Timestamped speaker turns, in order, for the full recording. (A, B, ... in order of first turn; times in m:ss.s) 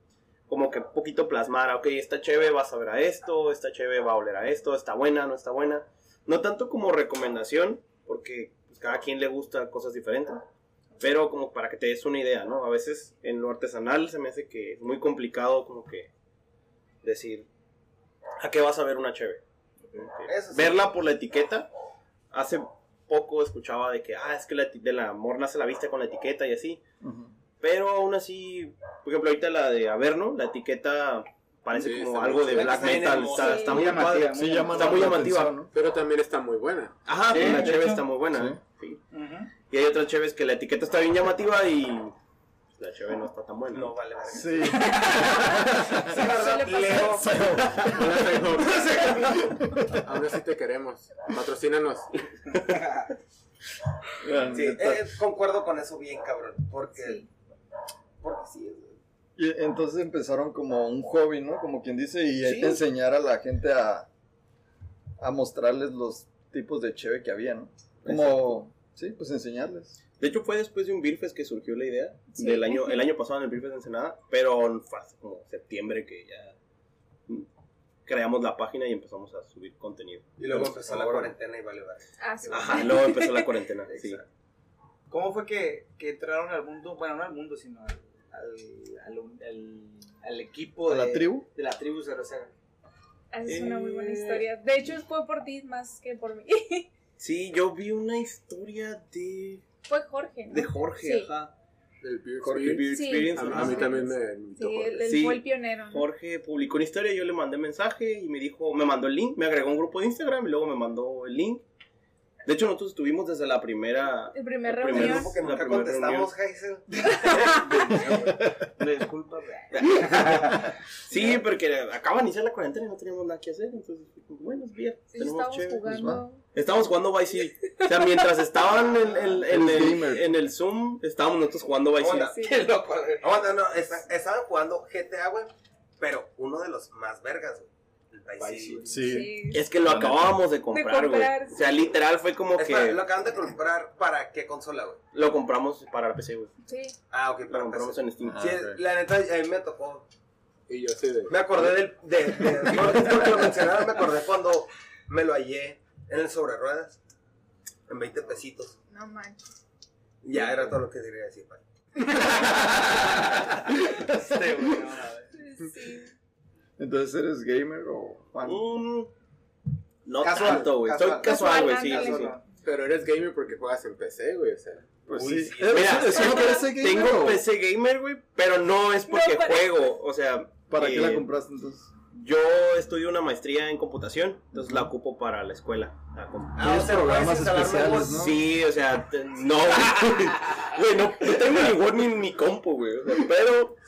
0:00.5-0:10.4 A
0:11.0-0:16.1 A
0:17.0-0:17.5 A
0:18.4-0:21.7 A
0:20.2-0:20.8 B
0:22.3-0:26.8 A
0:27.0-0:27.3 C
0:27.6-0:35.6 A
0:31.7-0:33.2 D
0:32.5-0:34.0 B
0:33.2-0:33.9 E
0:33.5-0:35.1 F
0:34.3-0:35.7 C
0:35.7-0:36.9 D
0:37.1-0:39.0 A
0:37.3-0:37.7 F
0:37.4-0:38.6 C
0:39.1-0:39.5 F
0:39.7-0:42.1 A
0:42.8-0:43.9 A
0:43.7-0:44.9 B
0:44.3-0:46.1 C
0:44.9-0:47.4 E
0:45.7-0:47.5 B
0:47.2-0:48.2 C
0:47.7-0:49.3 D
0:48.6-0:49.4 B
0:49.3-0:50.0 C
0:49.9-0:52.1 D
0:52.5-0:52.8 A
0:52.6-0:53.1 F
0:54.2-0:55.1 C
0:54.5-0:57.2 B
0:57.0-0:57.3 E
0:58.2-0:59.0 B
0:59.4-1:04.1 C
1:02.4-1:02.8 A
1:05.2-1:10.0 C
1:08.0-1:08.5 A
1:10.2-1:16.5 A
1:12.4-1:13.0 E
1:18.1-1:20.3 A
1:20.4-1:22.9 B
1:20.5-1:21.3 C
1:22.2-1:23.5 E
1:22.5-1:24.2 A
1:23.9-1:24.2 B
1:25.1-1:32.5 F
1:30.9-1:31.5 C
1:33.3-1:36.9 E
1:33.5-1:34.4 A
1:37.2-1:39.6 A
1:39.9-1:41.3 E
1:40.5-1:41.5 A
1:42.0-1:45.3 D
1:42.4-1:42.8 C
1:42.5-1:44.1 A
1:42.9-1:46.1 E
1:45.1-1:51.6 A
1:52.4-1:56.3 A
1:54.3-1:55.4 E
1:54.9-1:58.2 B
1:57.6-2:00.4 F
1:59.0-1:59.3 B
1:59.8-2:05.8 A
2:05.1-2:06.4 E
2:05.8-2:06.2 C
2:06.5-2:12.3 A
2:07.7-2:08.2 E
2:08.7-2:09.4 B
2:09.5-2:10.4 C
2:12.0-2:18.9 B
2:12.3-2:12.7 E
2:18.4-2:19.0 D
2:18.9-2:20.4 C
2:19.0-2:19.6 E
2:19.5-2:23.0 A
2:20.7-2:21.6 E
2:22.6-2:25.0 B
2:25.1-2:26.5 A
2:26.7-2:27.0 E
2:27.1-2:30.1 B
2:27.5-2:28.4 A
2:28.2-2:28.8 C
2:30.7-2:31.8 D
2:31.3-2:37.0 B
2:37.9-2:38.8 B
2:38.9-2:39.4 E
2:40.2-2:41.6 B
2:42.1-2:45.3 F
2:43.9-2:44.4 C
2:45.4-2:46.1 E
2:46.8-2:48.6 C
2:48.4-2:49.1 A
2:50.0-2:52.4 A
2:50.2-2:52.4 F
2:51.2-2:52.4 E
2:52.6-2:54.9 D
2:55.1-2:57.4 C
2:55.2-2:56.2 B
2:55.6-3:01.3 A
2:56.0-2:57.2 E
2:59.1-2:59.8 E
3:00.7-3:01.9 C
3:02.1-3:07.3 A
3:06.6-3:08.2 B
3:06.6-3:08.4 C
3:08.1-3:13.8 A